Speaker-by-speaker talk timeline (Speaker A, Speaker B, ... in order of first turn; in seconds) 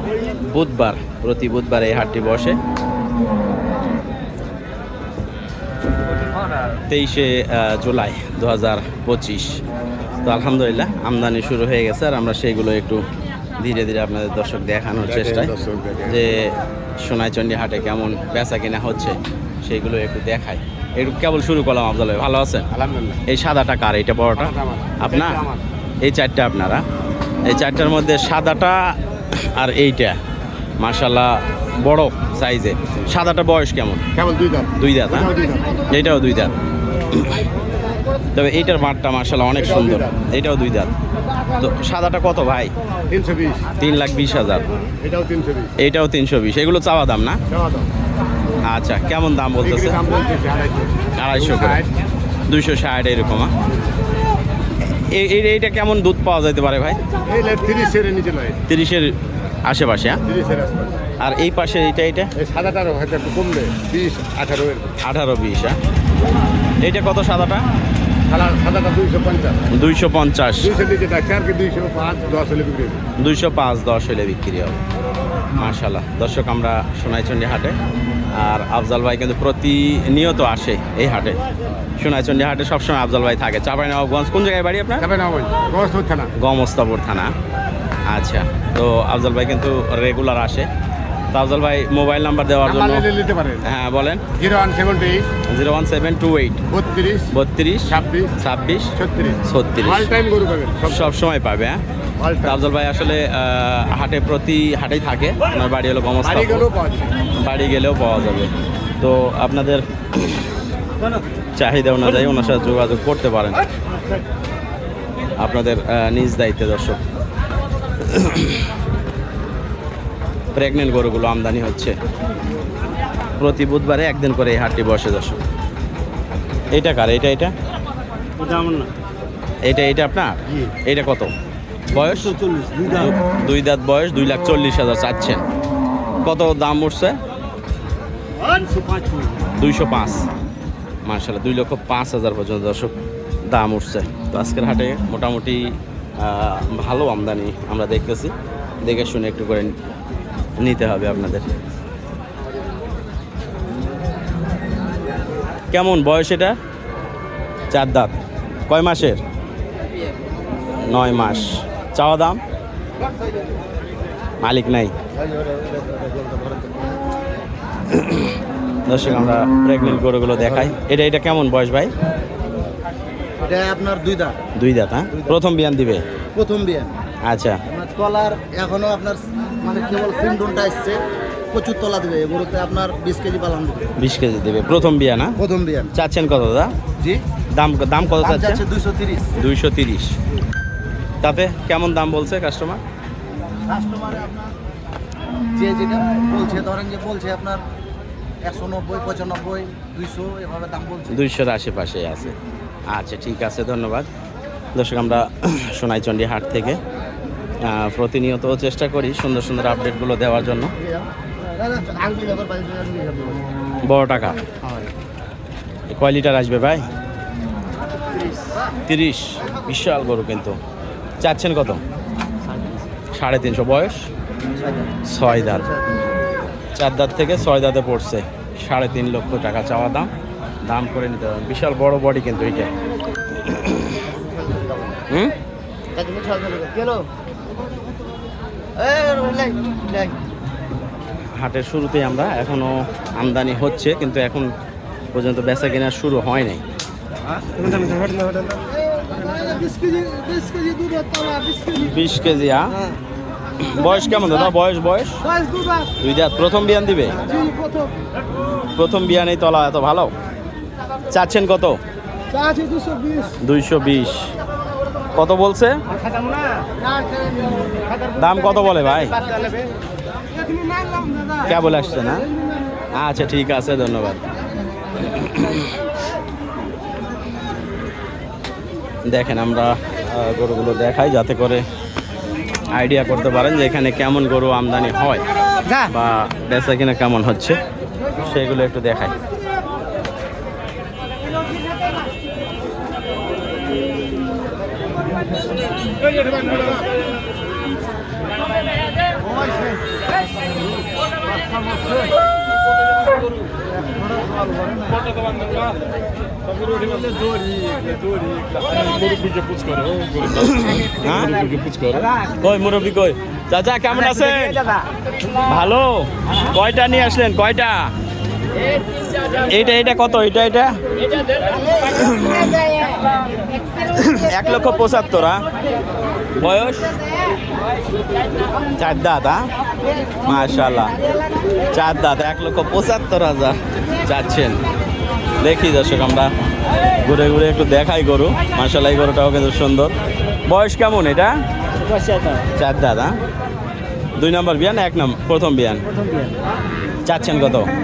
Speaker A: 0.3-2.6, 6.9-9.6, 10.2-13.0, 13.6-22.7, 23.2-25.4, 26.0-26.8, 27.4-30.2, 30.8-34.0, 34.8-35.3, 35.9-36.5, 37.1-37.4, 38.3-40.9, 41.5-42.7, 43.7-44.7, 45.8-47.4, 48.6-50.0, 51.1-51.9, 52.5-53.5, 54.9-57.0, 58.7-59.1, 59.6-60.2, 61.2-62.3, 65.0-65.8, 66.8-67.6, 69.7-70.7, 73.2-74.8, 75.5-77.8, 78.3-81.4, 82.0-85.1, 86.3-87.3, 88.1-90.7, 91.3-93.1, 93.6-94.3, 95.5-96.6, 97.3-100.1, 100.8-101.8, 102.4-106.7, 107.3-110.5, 111.6-113.6, 115.4-117.0, 118.1-118.6, 120.5-121.9, 123.4-125.4, 126.7-127.5, 129.7-131.3, 131.9-135.4, 136.2-137.2, 139.6-140.2, 141.1-142.9, 143.5-149.7, 150.6-151.5, 155.7-156.6, 157.7-158.1, 158.7-159.2, 160.8-162.4, 164.4-164.9, 167.9-168.3, 168.9-171.9, 174.6-176.0, 177.3-177.6, 184.0-185.3, 185.9-186.7, 187.6-188.6, 189.4-190.1, 191.2-192.8, 201.1-202.3, 202.9-204.1, 204.7-206.8, 207.6-210.7, 213.8-214.4, 215.9-216.8, 218.8-220.6, 221.2-221.8, 223.1-224.1, 225.1-225.7, 226.8-230.1, 230.7-232.7, 233.4-234.0, 241.4-244.5, 245.1-246.6, 251.8-252.8, 253.6-255.2, 256.0-257.2, 258.7-260.1, 261.1-261.8, 263.4-264.3, 265.1-265.8, 268.1-269.2, 271.4-272.3, 272.9-274.2, 275.0-275.7, 279.1-281.6, 282.7-285.2, 285.8-287.6, 288.2-289.1, 310.3-311.3, 312.4-314.6, 315.4-317.9, 319.4-320.8, 321.6-322.9, 323.9-325.4, 326.4-326.9, 328.8-329.5, 330.2-330.9, 331.7-334.6, 335.4-336.3, 337.0-339.9, 340.4-341.3, 342.5-343.1, 344.2-345.8, 347.0-347.7
Speaker B: 15.1-16.2, 22.7-23.2, 24.5-25.6, 34.1-35.7, 39.7-40.1, 43.1-43.7, 45.0-45.7, 47.5-47.9, 49.6-51.9, 57.2-58.6, 60.3-61.0, 62.4-65.0, 68.3-69.7, 70.6-73.0, 85.0-86.3, 92.7-93.6, 94.3-95.3, 96.7-97.3, 97.9-98.3, 99.0-101.1, 102.2-102.6, 106.3-107.1, 308.5-312.1
Speaker C: 128.4-128.9, 132.4-132.9, 138.5-139.3, 165.1-167.0, 173.4-174.4, 176.3-176.9, 177.7-183.9, 185.4-185.9, 188.0-189.3, 193.7-194.5, 195.5-197.6, 198.4-201.2, 210.8-213.4, 214.6-214.9, 218.3-218.6, 222.4-222.8, 224.5-226.0, 234.3-235.0, 235.9-237.0, 238.8-240.2, 247.4-251.9, 255.2-255.9, 257.2-257.9, 262.3-263.4, 266.1-267.9, 269.2-269.6, 270.5-271.5, 299.3-299.8, 303.8-305.0, 306.8-307.6, 314.6-314.9, 341.9-342.3